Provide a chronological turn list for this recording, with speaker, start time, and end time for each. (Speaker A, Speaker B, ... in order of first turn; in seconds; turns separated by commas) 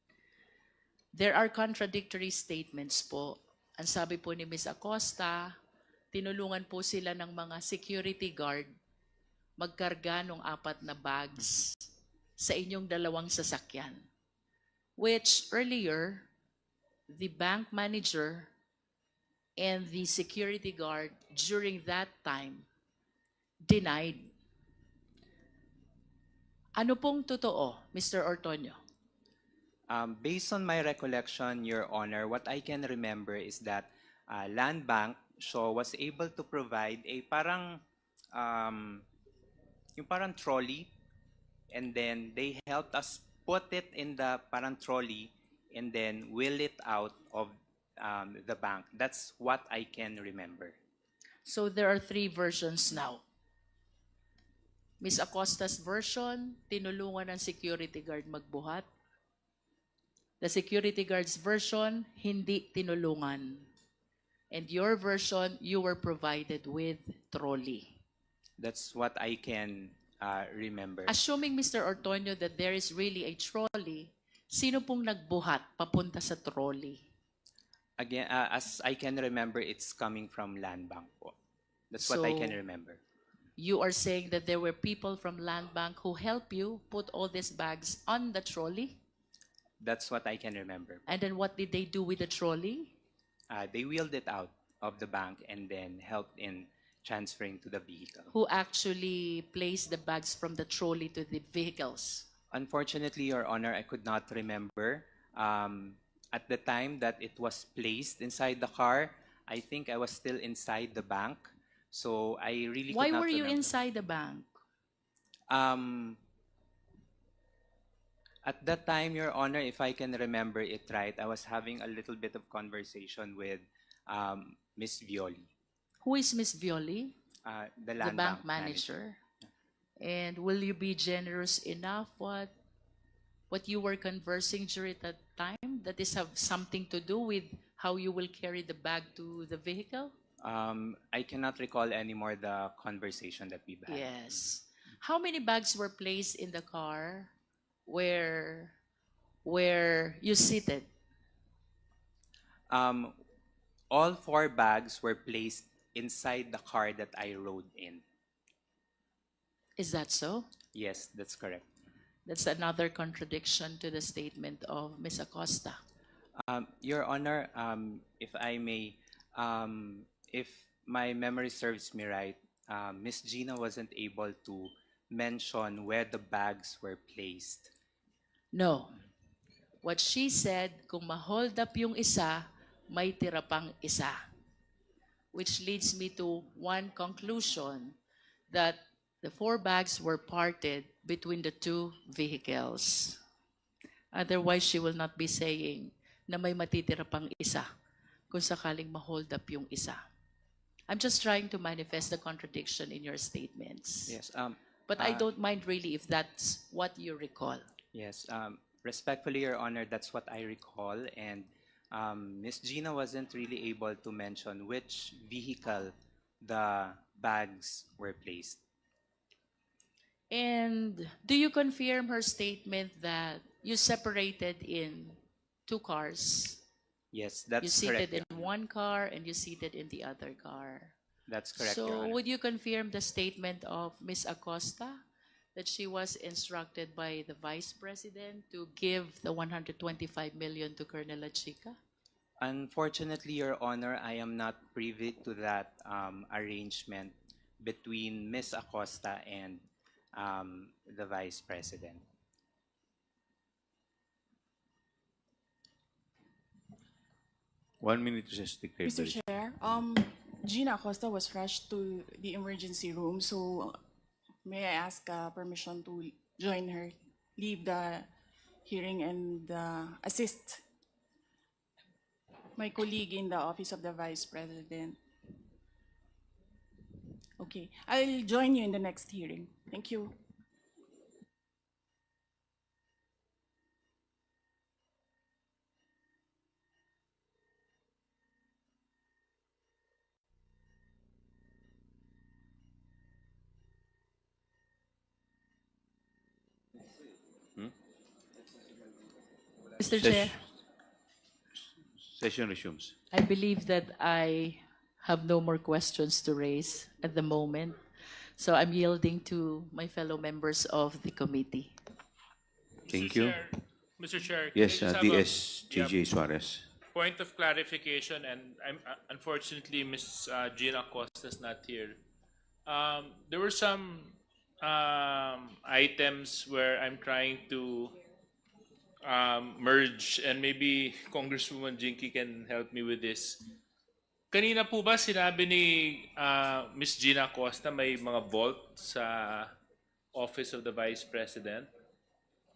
Speaker A: 1.1-5.5, Speaker A: 6.1-8.7, Speaker A: 9.6-11.8, Speaker A: 12.4-14.1, Speaker A: 15.0-16.3, Speaker A: 17.1-18.5, Speaker A: 19.6-22.7, Speaker A: 23.6-24.3, Speaker A: 26.8-28.8, Speaker B: 29.9-37.8, Speaker B: 38.3-39.0, Speaker B: 40.0-40.9, Speaker B: 41.7-50.8, Speaker A: 51.5-53.2, Speaker A: 55.0-58.9, Speaker A: 60.4-63.7, Speaker A: 64.5-68.0, Speaker B: 68.6-71.1, Speaker A: 71.1-77.0, Speaker B: 78.0-81.3, Speaker B: 81.9-83.0, Speaker A: 82.0-82.6, Speaker A: 83.6-89.0, Speaker B: 89.8-91.0, Speaker A: 91.1-92.9, Speaker B: 93.5-98.3, Speaker A: 98.3-102.3, Speaker B: 102.5-113.7, Speaker A: 112.9-114.5, Speaker B: 115.5-116.2, Speaker B: 118.4-125.5, Speaker A: 126.0-127.1, Speaker B: 127.4-128.9, Speaker A: 128.0-129.2, Speaker A: 130.0-132.5, Speaker A: 133.5-140.1, Speaker B: 140.4-144.4, Speaker A: 143.9-147.3, Speaker A: 147.9-148.7, Speaker A: 149.4-150.9, Speaker B: 152.7-153.2, Speaker B: 153.9-158.0, Speaker A: 159.8-160.5, Speaker B: 160.7-161.7, Speaker A: 162.3-165.8, Speaker B: 166.4-177.7, Speaker A: 178.5-178.9, Speaker A: 179.8-184.2, Speaker A: 185.3-187.9, Speaker A: 188.5-193.2, Speaker A: 194.1-197.7, Speaker A: 198.3-200.0, Speaker A: 200.9-204.1, Speaker B: 204.1-205.3, Speaker A: 204.9-207.6, Speaker B: 207.9-218.6, Speaker A: 220.3-226.6, Speaker B: 227.1-228.5, Speaker A: 227.6-230.9, Speaker B: 231.3-232.2, Speaker A: 231.6-235.0, Speaker A: 235.5-241.8, Speaker B: 242.4-249.6, Speaker B: 250.1-252.0, Speaker C: 257.8-259.3, Speaker D: 258.8-263.8, Speaker D: 264.4-268.1, Speaker D: 268.6-270.6, Speaker D: 272.6-275.0, Speaker D: 277.4-280.1, Speaker A: 299.8-300.4, Speaker C: 299.9-300.5, Speaker C: 302.0-302.9, Speaker A: 303.1-307.8, Speaker A: 308.4-311.8, Speaker C: 312.9-313.4, Speaker E: 312.9-315.9, Speaker C: 314.5-316.7, Speaker E: 316.9-322.0, Speaker E: 322.6-327.9, Speaker E: 329.0-333.4, Speaker E: 334.3-339.5, Speaker E: 340.1-341.7